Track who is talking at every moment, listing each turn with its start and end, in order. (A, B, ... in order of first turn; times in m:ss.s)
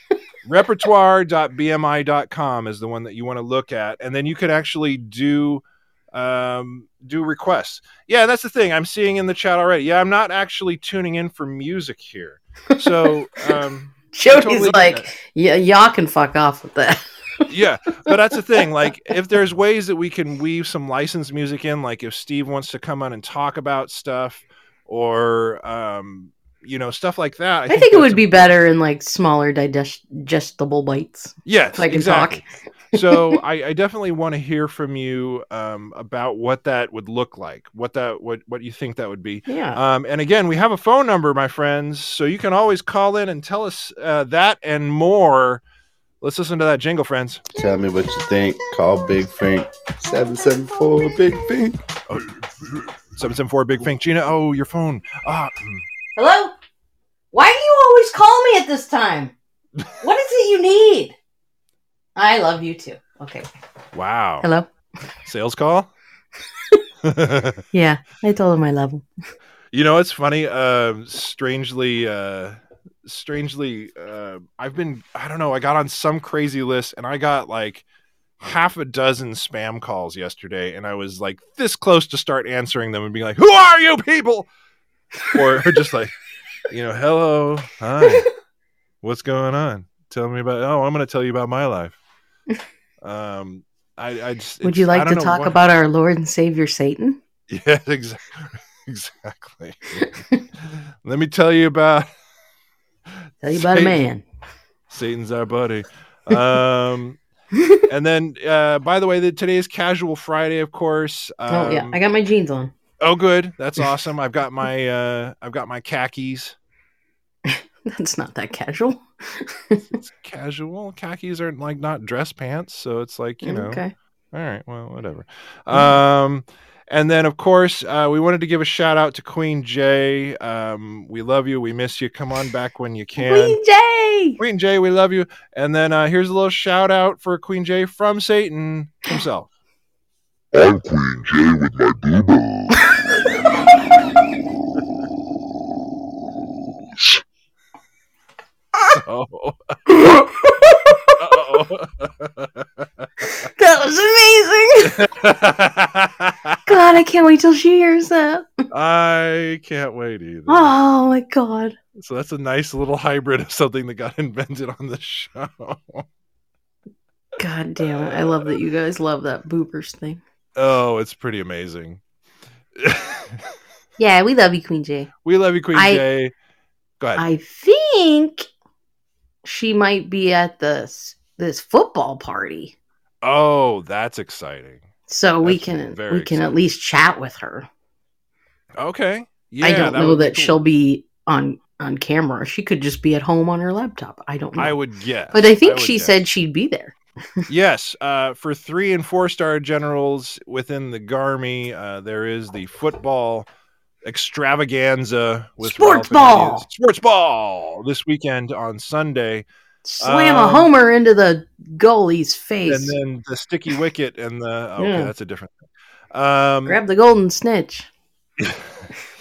0:00.4-0:15.1 A
0:12.7-0:13.6 B
0:14.1-0:17.5 B
0:17.5-0:28.5 A
0:27.7-0:32.4 B
0:31.4-0:45.6 A
0:33.0-0:33.4 B
0:39.5-0:39.8 B
0:46.2-0:47.4 A
0:47.6-0:51.8 C
0:52.1-0:55.8 A
0:56.2-0:56.5 B
0:57.3-0:59.3 B
1:00.0-1:01.2 B
1:02.2-1:03.5 B
1:03.9-1:04.4 A
1:04.4-1:04.7 B
1:05.2-1:05.9 A
1:07.0-1:07.6 A
1:07.7-1:09.0 B
1:09.7-1:17.8 A
1:18.4-1:24.5 A
1:25.3-1:26.1 A
1:26.7-1:28.3 A
1:29.0-1:32.0 A
1:33.0-1:35.6 A
1:34.6-1:37.2 B
1:37.5-1:40.0 A
1:40.0-1:40.4 B
1:40.7-1:42.1 A
1:43.4-1:44.2 B
1:43.5-1:44.0 A
1:44.9-1:47.2 A
1:47.5-1:47.8 B
1:47.9-1:51.9 A
1:51.5-1:52.7 B
1:53.0-1:56.6 A
1:57.5-2:00.0 B
2:00.0-2:03.8 A
2:03.4-2:03.9 B
2:04.3-2:13.6 A
2:13.2-2:14.4 B
2:14.4-2:19.5 A
2:20.5-2:22.9 D
2:28.9-2:30.2 A
2:30.0-2:31.1 B
2:31.2-2:33.0 A
2:33.2-2:35.0 B
2:34.9-2:37.0 A
2:36.6-2:38.6 B
2:38.7-2:40.8 A
2:40.5-2:41.8 B
2:41.9-2:46.1 A
2:47.4-2:50.2 B
2:47.8-2:48.6 A
2:50.6-2:52.0 A
2:52.8-2:53.5 A
2:54.0-2:55.1 B
2:55.2-2:56.3 A
2:55.7-2:56.0 B
2:57.2-2:58.4 B
2:59.4-3:02.7 B
3:03.2-3:04.9 A
3:05.1-3:07.7 B
3:05.4-3:06.5 A
3:08.8-3:10.6 A
3:09.6-3:14.8 B
3:14.6-3:16.2 A
3:15.3-3:16.9 B
3:17.5-3:23.5 A
3:24.0-3:29.5 A
3:25.6-3:26.6 B
3:29.8-3:33.0 B
3:30.0-3:30.7 A
3:32.6-3:35.6 A
3:34.8-3:35.1 B
3:36.1-3:36.8 A
3:36.6-3:37.9 B
3:38.4-3:38.9 A